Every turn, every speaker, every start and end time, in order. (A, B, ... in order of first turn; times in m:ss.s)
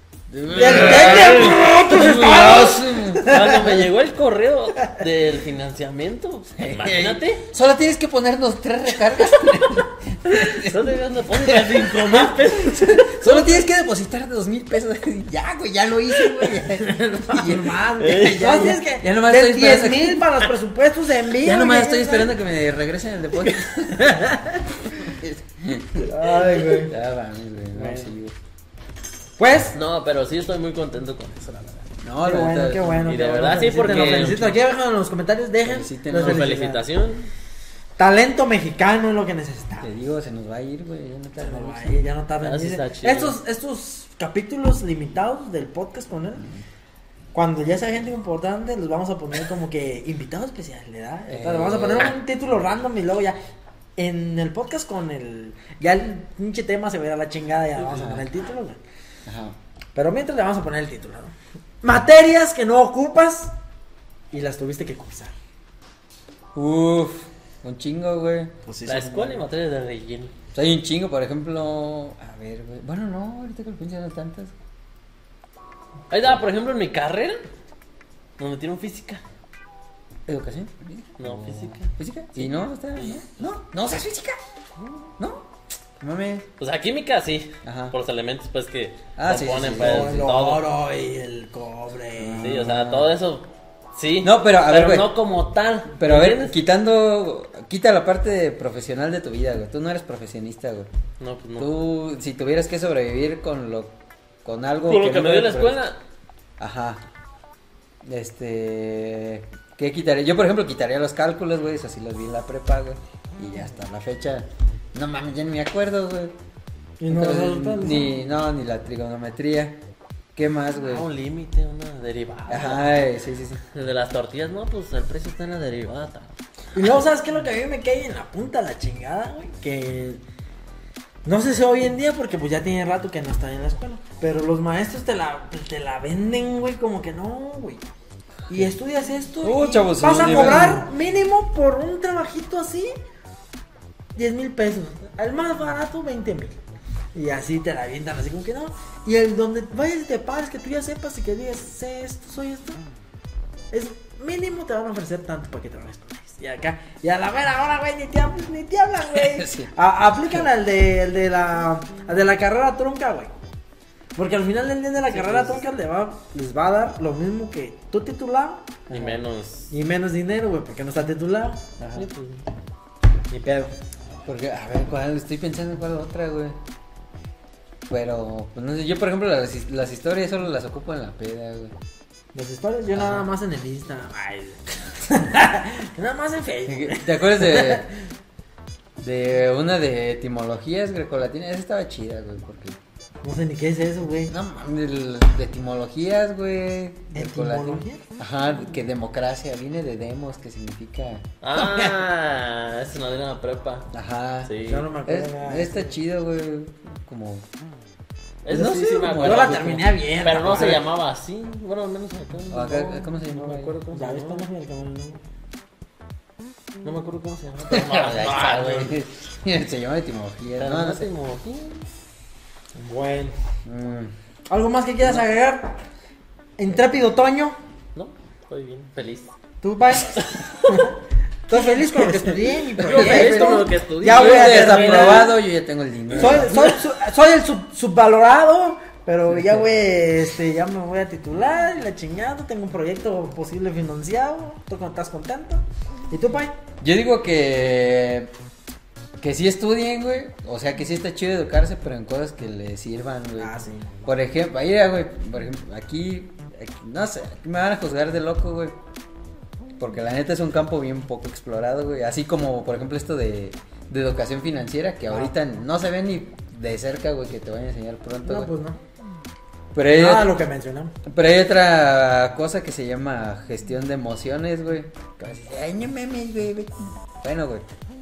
0:00.3-0:03.4 A
0:00.5-0:01.6 B
0:00.5-0:03.8 C
0:03.2-0:07.4 B
0:06.6-0:20.3 A
0:10.4-0:13.6 B
0:16.6-0:22.4 C
0:18.0-0:18.6 B
0:21.4-0:24.4 A
0:24.0-0:24.6 C
0:24.9-0:28.3 A
0:26.0-0:27.0 C
0:27.7-0:28.1 C
0:29.4-0:29.8 C
0:29.7-0:31.8 B
0:32.0-0:33.0 A
0:32.2-0:36.8 C
0:33.0-0:34.6 B
0:35.6-0:36.6 A
0:36.2-0:37.3 B
0:38.0-0:39.9 C
0:39.8-0:42.0 A
0:41.4-0:46.4 C
0:42.4-0:43.4 B
0:46.4-0:46.6 A
0:47.3-0:53.4 C
0:51.3-0:52.2 A
0:54.0-0:58.8 C
0:57.8-0:58.2 A
0:59.2-0:59.6 A
0:59.9-1:03.5 C
1:04.3-1:05.3 C
1:06.5-1:08.5 A
1:08.7-1:09.4 C
1:08.8-1:10.3 B
1:10.5-1:14.5 A
1:16.1-1:17.4 B
1:18.4-1:19.2 B
1:20.3-1:24.4 A
1:21.2-1:23.2 B
1:25.2-1:25.4 A
1:26.0-1:26.4 A
1:26.6-1:30.6 B
1:27.6-1:27.9 A
1:29.2-1:30.3 A
1:29.7-1:32.5 C
1:32.2-1:33.1 A
1:32.4-1:36.6 B
1:34.2-1:35.2 A
1:35.9-1:40.9 A
1:41.2-1:41.7 B
1:41.6-1:45.8 A
1:44.8-1:46.0 B
1:46.6-1:47.0 A
1:48.0-1:56.3 A
1:57.0-1:58.2 C
1:57.1-1:59.8 A
2:00.3-2:01.1 A
2:00.8-2:02.9 B
2:02.5-2:03.6 A
2:03.7-2:06.3 B
2:06.7-2:10.2 C
2:11.2-2:17.8 C
2:18.5-2:22.9 C
2:19.4-2:20.9 A
2:24.2-2:26.6 C
2:27.1-2:32.8 C
2:33.7-2:43.3 C
2:39.1-2:39.7 A
2:44.2-2:48.8 C
2:45.0-2:45.6 B
2:48.9-2:49.2 A
2:48.9-2:49.7 B
2:49.7-2:51.6 C
2:51.8-2:52.0 A
2:51.9-2:52.4 B
2:53.3-2:53.7 C
2:54.2-2:56.6 A
2:57.9-3:01.7 A
3:02.3-3:07.9 C
3:02.9-3:03.3 A
3:06.7-3:07.9 A
3:09.0-3:12.8 A
3:13.2-3:14.3 C
3:14.3-3:22.0 A
3:17.1-3:18.0 C
3:21.4-3:23.9 B
3:23.9-3:27.4 A
3:24.4-3:24.9 B
3:24.6-3:25.9 C
3:28.4-3:33.0 B
3:28.5-3:29.8 A
3:29.2-3:30.8 C
3:32.5-3:33.8 A
3:33.2-3:35.2 C
3:33.9-3:34.4 B
3:36.8-3:38.9 B
3:37.7-3:41.1 A
3:40.6-3:41.8 B
3:42.7-3:43.4 C
3:43.6-3:44.1 A
3:44.5-3:45.8 C
3:46.6-3:47.5 C
3:47.9-3:49.3 B
3:49.6-3:51.0 C
3:49.9-3:50.9 B
3:51.5-3:55.4 C
3:52.0-3:55.3 B
3:52.8-3:56.8 A
3:56.2-4:06.5 C
4:06.8-4:08.3 A
4:09.2-4:13.5 A
4:13.4-4:13.9 C
4:14.0-4:18.8 A
4:19.8-4:28.5 A
4:28.2-4:28.8 C
4:29.7-4:30.3 A
4:29.9-4:30.9 C
4:31.0-4:37.7 A